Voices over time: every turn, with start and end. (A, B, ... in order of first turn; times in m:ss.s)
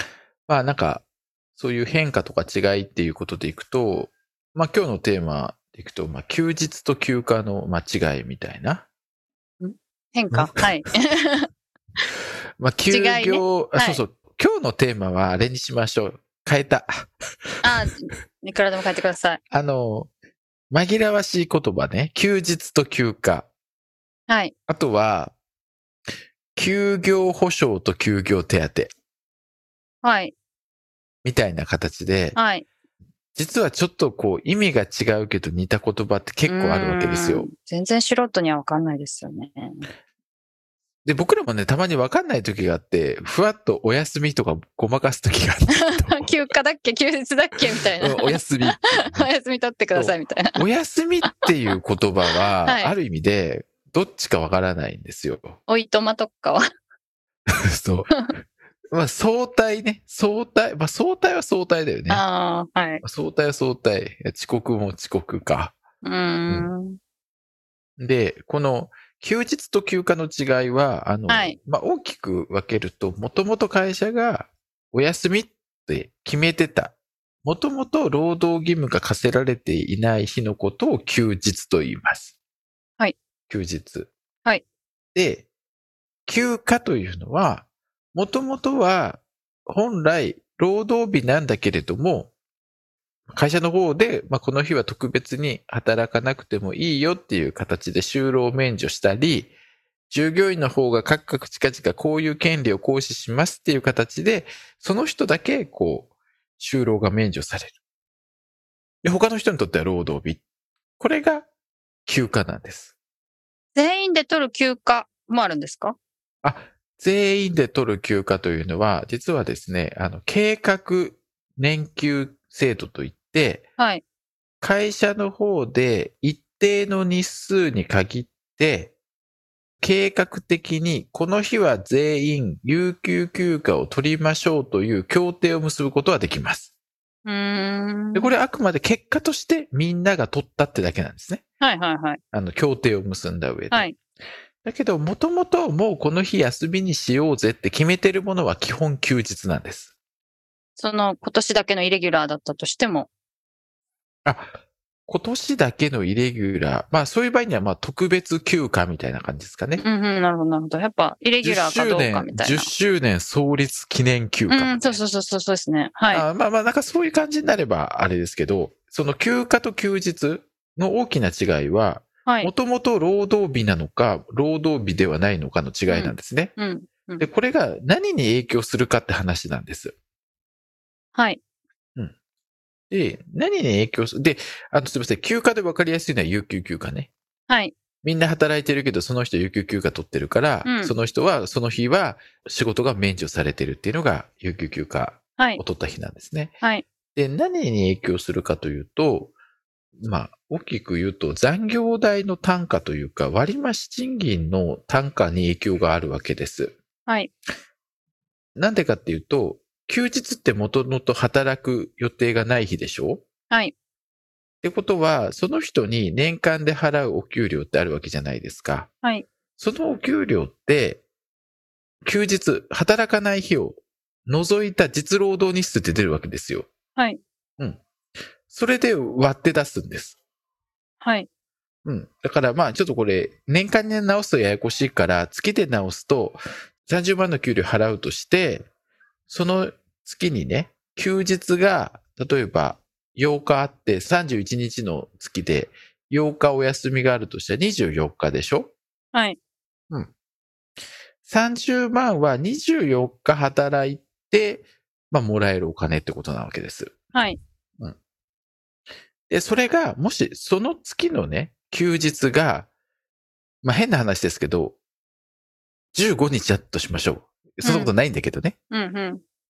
0:00.5-0:08.8 A
0:09.6-0:11.4 B
0:10.3-0:10.6 A
0:12.6-0:17.6 A
0:12.9-0:14.0 B
0:17.6-0:19.4 B
0:19.5-0:20.1 A
0:20.7-0:23.5 A
0:24.7-0:25.3 A
0:26.6-0:28.9 A
0:30.0-0:30.3 B
0:31.2-0:32.4 A
0:32.3-0:32.6 B
0:33.3-0:37.5 A
0:36.5-0:39.9 B
0:41.0-0:46.3 A
0:45.7-0:50.6 B
0:48.0-0:49.3 A
0:49.9-0:55.6 A
0:52.6-0:52.9 B
0:55.7-0:56.6 B
0:57.5-0:58.3 A
0:58.9-1:02.2 A
1:02.1-1:03.0 B
1:03.0-1:05.8 A
1:06.0-1:07.0 B
1:08.0-1:22.3 A
1:11.3-1:11.6 B
1:23.5-1:24.1 A
1:25.1-1:25.5 A
1:26.2-1:32.3 A
1:33.3-1:39.5 A
1:40.1-1:47.8 A
1:49.0-1:50.4 A
1:51.0-1:51.5 A
1:52.0-1:52.9 A
1:53.8-1:56.0 B
1:56.4-2:03.6 A
2:04.6-2:08.9 A
2:09.8-2:16.7 A
2:17.2-2:18.3 B
2:18.1-2:21.4 A
2:21.6-2:22.2 B
2:22.3-2:24.0 A
2:24.6-2:29.9 A
2:30.8-2:33.1 B
2:34.2-2:34.5 A
2:35.1-2:39.8 A
2:39.8-2:42.7 B
2:41.4-2:45.0 A
2:44.5-2:46.2 B
2:46.1-2:56.5 A
2:52.2-2:52.5 B
2:55.9-2:57.3 B
2:57.2-2:59.9 A
3:02.9-3:07.1 A
3:08.0-3:16.5 A
3:10.6-3:10.9 B
3:17.1-3:19.3 A
3:20.0-3:26.8 A
3:28.5-3:33.2 A
3:34.6-3:38.9 A
3:39.6-3:41.0 A
3:42.0-3:46.7 A
3:47.0-3:47.2 B
3:48.5-3:50.2 A
3:51.0-3:51.3 B
3:51.8-3:58.7 A
3:59.3-4:08.7 A
4:11.2-4:17.0 A
4:17.1-4:17.4 B
4:19.3-4:22.7 A
4:23.6-4:24.8 A
4:25.9-4:28.6 A
4:27.6-4:27.9 B
4:28.7-4:29.2 B